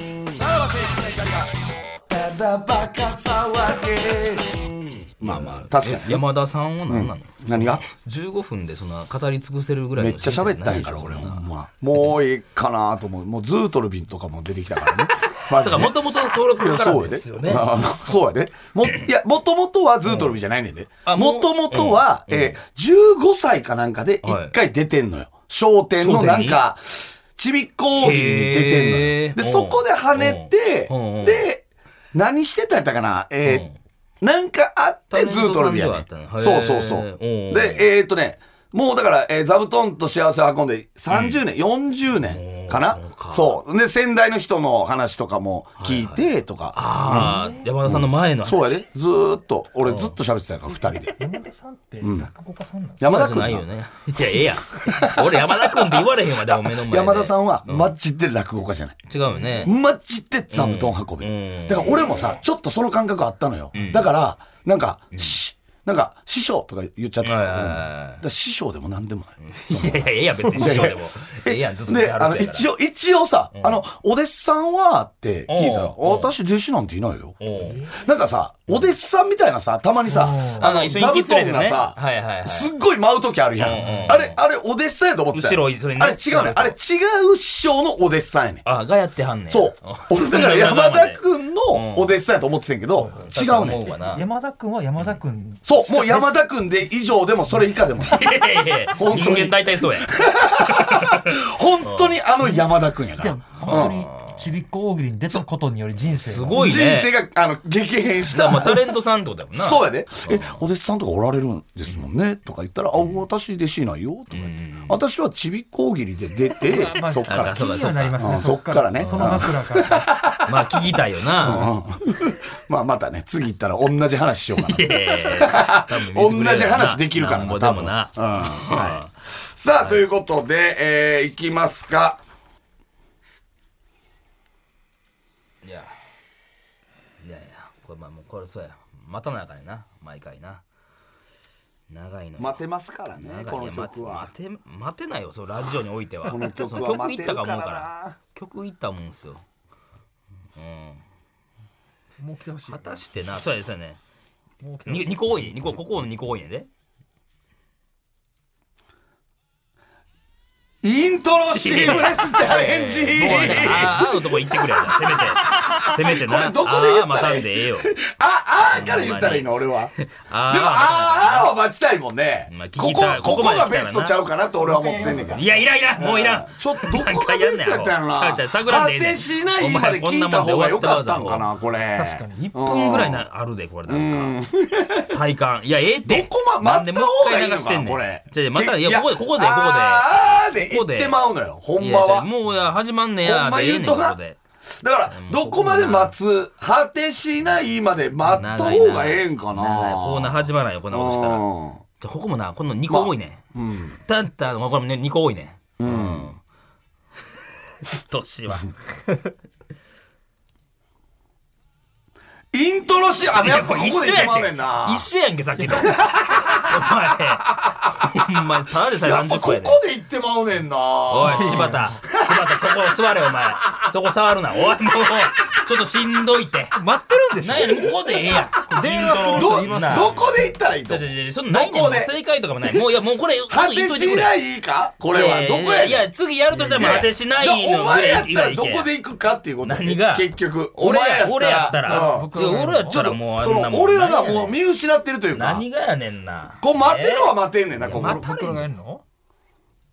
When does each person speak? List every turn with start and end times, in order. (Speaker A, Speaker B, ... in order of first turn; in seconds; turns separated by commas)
Speaker A: 0.3-6.2, Speaker B: 5.2-11.5, Speaker A: 6.9-7.8, Speaker A: 10.0-33.6, Speaker B: 15.5-18.2, Speaker B: 20.0-20.3, Speaker B: 21.0-22.6, Speaker B: 24.2-24.6, Speaker B: 26.0-26.6, Speaker B: 28.0-31.4, Speaker B: 33.4-33.8, Speaker A: 34.2-51.3, Speaker B: 35.1-37.9, Speaker B: 41.1-41.4, Speaker B: 42.2-43.6, Speaker B: 45.8-48.8, Speaker C: 47.0-47.7, Speaker B: 49.8-50.1, Speaker C: 51.2-53.0, Speaker A: 52.0-52.3, Speaker A: 53.0-53.6, Speaker B: 53.0-57.9, Speaker A: 54.8-59.0, Speaker B: 59.1-59.7, Speaker A: 59.6-88.7, Speaker B: 60.5-62.2, Speaker B: 63.7-64.1, Speaker B: 67.2-68.2, Speaker B: 69.4-72.7, Speaker B: 73.5-73.8, Speaker B: 75.5-76.3, Speaker B: 77.4-77.9, Speaker C: 77.6-77.9, Speaker C: 80.1-80.7, Speaker B: 80.6-82.7, Speaker B: 83.6-84.4, Speaker C: 83.8-84.2, Speaker B: 85.3-86.8, Speaker B: 88.6-92.2, Speaker A: 89.5-93.9, Speaker C: 93.0-93.3, Speaker B: 93.2-94.3, Speaker C: 93.9-96.4, Speaker A: 95.6-98.2, Speaker B: 98.0-102.2, Speaker A: 99.0-104.0, Speaker C: 102.4-106.8, Speaker B: 103.6-104.5, Speaker B: 106.0-107.1, Speaker A: 106.6-108.9, Speaker B: 108.2-110.6, Speaker A: 109.5-117.6, Speaker B: 113.0-113.2, Speaker B: 114.3-115.0, Speaker C: 116.6-120.1, Speaker B: 117.2-119.5, Speaker A: 118.2-132.2, Speaker B: 120.5-121.7, Speaker B: 124.6-129.1, Speaker B: 129.8-130.0, Speaker B: 135.6-135.9, Speaker B: 137.2-140.6, Speaker B: 141.9-142.6, Speaker A: 142.4-144.3, Speaker B: 143.1-149.4, Speaker A: 146.2-148.2, Speaker B: 150.6-151.0, Speaker C: 152.2-153.0, Speaker B: 152.7-154.0, Speaker C: 154.6-155.2, Speaker B: 154.8-156.7, Speaker A: 160.8-169.9, Speaker B: 161.5-167.9, Speaker C: 163.2-163.8, Speaker B: 168.7-171.5, Speaker A: 170.5-183.2, Speaker B: 172.5-174.2, Speaker C: 174.8-175.4, Speaker B: 175.0-181.5, Speaker C: 181.9-182.7, Speaker B: 182.6-184.4, Speaker A: 183.9-185.2, Speaker B: 185.1-191.2, Speaker A: 186.0-192.3, Speaker B: 191.8-194.4, Speaker A: 193.2-194.2, Speaker A: 194.8-201.8, Speaker B: 195.1-196.1, Speaker B: 198.3-201.5, Speaker B: 202.0-203.4, Speaker A: 202.9-204.0, Speaker B: 204.1-206.4, Speaker A: 205.8-206.3, Speaker B: 207.8-208.8, Speaker A: 212.5-215.1, Speaker B: 213.3-219.8, Speaker A: 215.7-216.9, Speaker A: 217.6-217.9, Speaker A: 219.0-222.7, Speaker B: 221.1-226.8, Speaker C: 221.2-222.0, Speaker C: 226.7-230.4, Speaker B: 227.4-230.2, Speaker A: 229.3-232.1, Speaker B: 230.8-234.3, Speaker A: 233.5-236.0, Speaker B: 235.1-238.9, Speaker C: 236.5-236.9, Speaker A: 236.6-245.6, Speaker B: 239.6-244.6, Speaker C: 241.8-243.1, Speaker B: 245.3-248.6, Speaker A: 246.6-248.6, Speaker C: 247.8-249.0